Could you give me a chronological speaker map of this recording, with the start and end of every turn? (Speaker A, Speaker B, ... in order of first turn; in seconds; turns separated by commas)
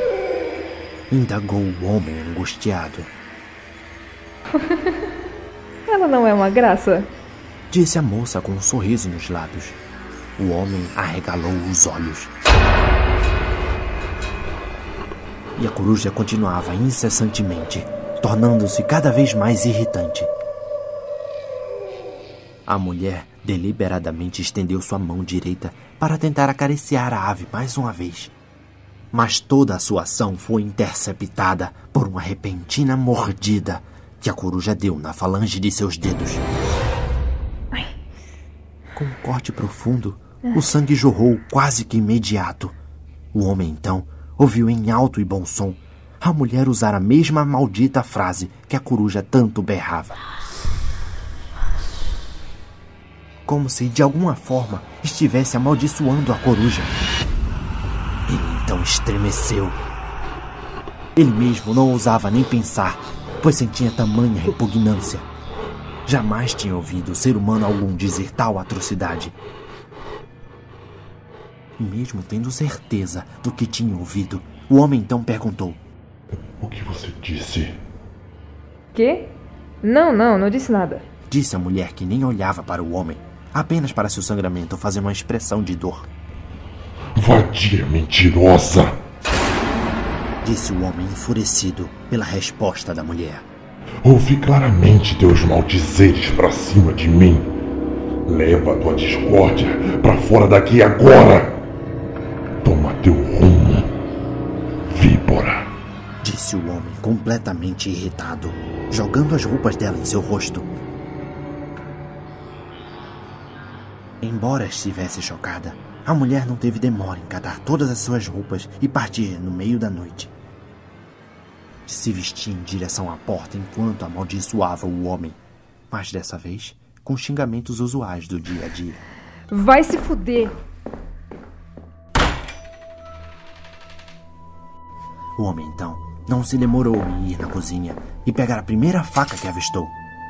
Speaker A: 1.1-3.1, Speaker B: 5.9-7.1, Speaker A: 7.7-9.8, Speaker A: 10.4-12.3, Speaker A: 15.6-20.3, Speaker A: 22.7-28.3, Speaker A: 29.1-36.5, Speaker A: 38.9-42.8, Speaker A: 43.3-50.2, Speaker A: 53.5-57.0, Speaker A: 58.3-59.8, Speaker A: 61.1-65.2, Speaker A: 66.0-69.3, Speaker A: 71.8-75.8, Speaker C: 76.3-77.8, Speaker B: 78.9-79.3, Speaker B: 79.8-81.0, Speaker A: 81.3-86.1, Speaker C: 87.2-89.0, Speaker A: 90.4-93.5, Speaker C: 94.0-97.5, Speaker C: 98.2-101.6, Speaker C: 102.6-103.9, Speaker C: 104.9-105.7, Speaker A: 106.2-110.7, Speaker A: 114.2-120.3, Speaker A: 121.8-125.4, Speaker A: 125.9-129.0, Speaker B: 129.5-130.6, Speaker A: 135.4-139.9